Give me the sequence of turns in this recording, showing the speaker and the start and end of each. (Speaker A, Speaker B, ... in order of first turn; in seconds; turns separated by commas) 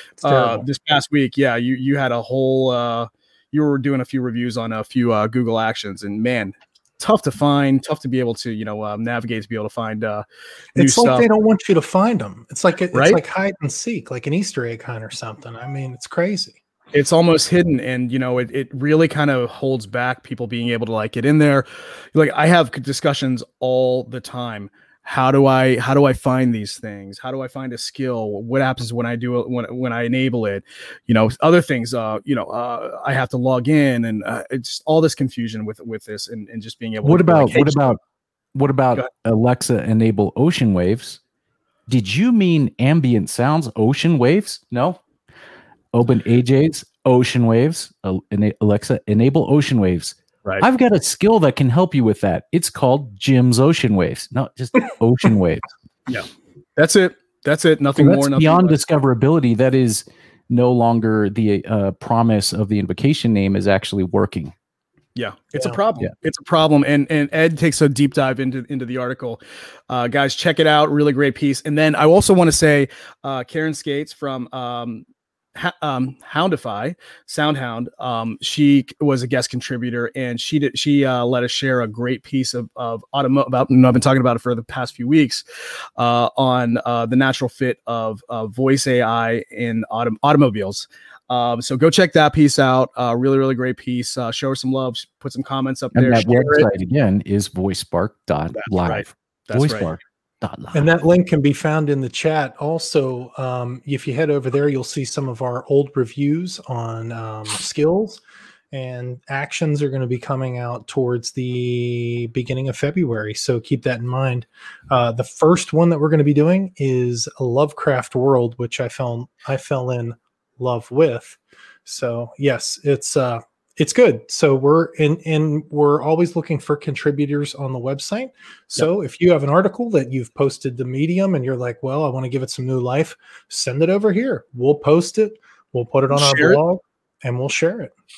Speaker A: 0.2-0.7, Speaker B: 0.2-10.2, Speaker B: 10.8-11.3, Speaker A: 10.8-16.6, Speaker B: 12.9-13.2, Speaker B: 16.9-38.0, Speaker C: 37.0-38.0, Speaker C: 38.5-41.2, Speaker C: 41.9-45.0, Speaker C: 45.9-55.7, Speaker B: 56.1-58.8, Speaker C: 58.0-64.5, Speaker B: 65.2-85.4, Speaker B: 86.0-96.7, Speaker C: 95.9-100.9, Speaker B: 98.5-99.9, Speaker A: 100.7-108.2, Speaker A: 108.7-137.9, Speaker B: 136.1-136.6